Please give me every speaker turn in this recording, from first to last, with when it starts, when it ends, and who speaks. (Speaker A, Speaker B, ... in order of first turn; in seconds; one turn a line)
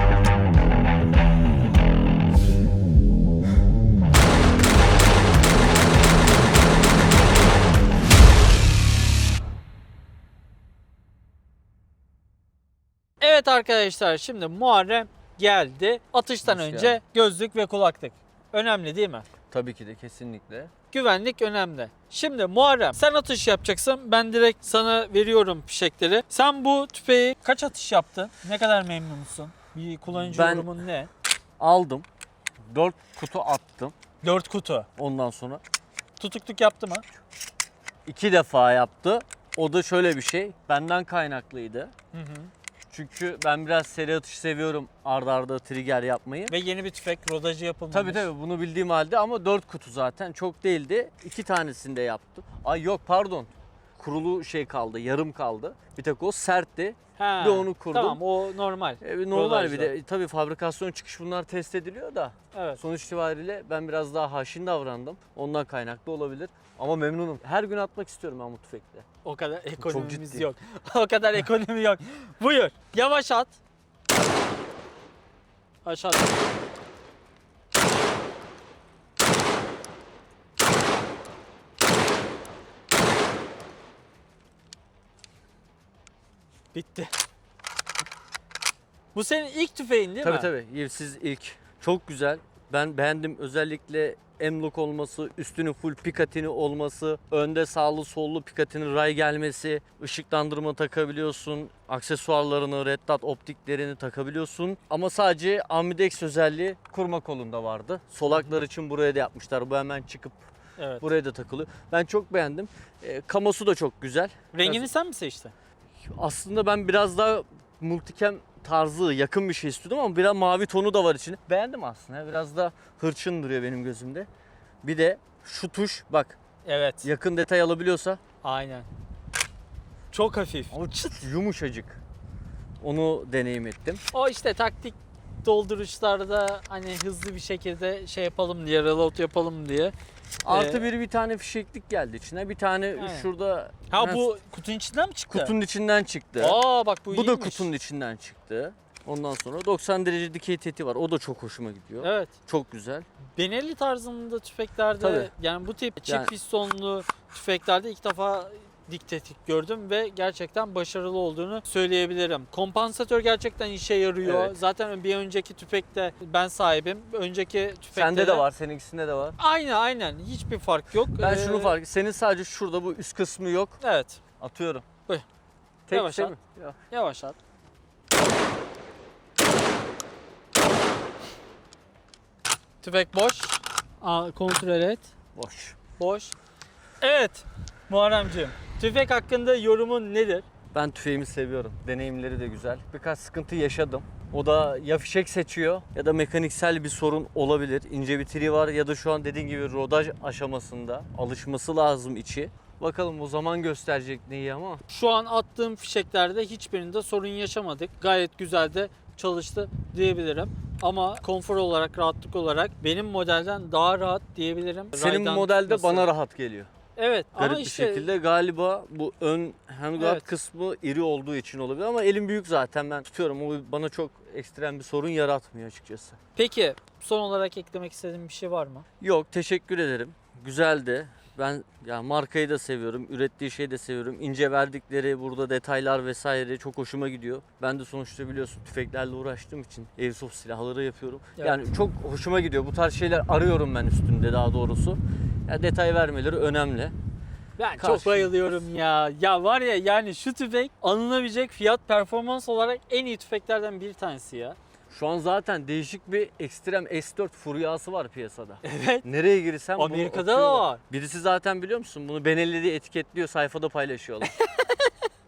Speaker A: 13.2-19.3
Speaker B: 16.4-17.0
Speaker B: 19.5-20.7
Speaker A: 20.9-31.1
Speaker B: 30.1-30.7
Speaker B: 31.6-32.1
Speaker B: 32.7-33.9
Speaker A: 34.2-34.9
Speaker B: 35.0-35.6
Speaker A: 36.2-37.1
Speaker B: 38.1-41.9
Speaker A: 42.1-42.5
Speaker B: 42.9-46.5
Speaker A: 46.5-48.3
Speaker B: 47.9-58.2
Speaker A: 57.2-59.9
Speaker B: 59.0-69.1
Speaker A: 62.5-62.8
Speaker A: 69.2-73.6
Speaker B: 69.8-70.5
Speaker A: 75.8-76.3
Speaker A: 86.7-87.1
Speaker A: 89.1-90.5
Speaker B: 90.2-110.5
Speaker A: 110.8-111.0
Speaker B: 111.0-114.9
Speaker A: 114.5-115.5
Speaker B: 116.1-124.3
Speaker B: 124.8-126.4
Speaker A: 126.7-127.1
Speaker B: 127.0-128.2
Speaker A: 128.4-128.9
Speaker A: 130.1-130.7
Speaker B: 130.7-132.0
Speaker B: 132.8-134.0
Speaker A: 134.1-139.9
Speaker B: 140.4-144.2
Speaker A: 140.5-140.8
Speaker A: 143.0-143.3
Speaker A: 143.9-145.5
Speaker B: 145.3-146.6
Speaker A: 146.4-147.7
Speaker B: 147.1-153.1
Speaker A: 152.0-152.3
Speaker A: 153.4-168.5
Speaker B: 155.0-155.3
Speaker B: 156.1-156.3
Speaker B: 164.2-164.6
Speaker B: 167.9-169.4
Speaker A: 169.4-171.8
Speaker B: 171.2-173.8
Speaker A: 173.8-174.2
Speaker B: 174.4-174.8
Speaker B: 175.9-176.8
Speaker A: 175.9-176.3
Speaker A: 176.9-177.4
Speaker A: 182.8-185.1
Speaker B: 185.4-185.8
Speaker A: 186.0-186.3
Speaker A: 187.0-190.5
Speaker B: 190.7-204.8
Speaker A: 204.9-216.1
Speaker B: 214.9-216.7
Speaker A: 217.0-218.1
Speaker B: 217.4-226.2
Speaker A: 220.0-220.3
Speaker A: 226.3-228.8
Speaker B: 229.0-246.9
Speaker A: 241.4-241.7
Speaker A: 247.6-254.6
Speaker B: 247.8-248.4
Speaker B: 254.9-264.3
Speaker A: 258.6-259.0
Speaker A: 259.8-260.8
Speaker A: 264.2-264.9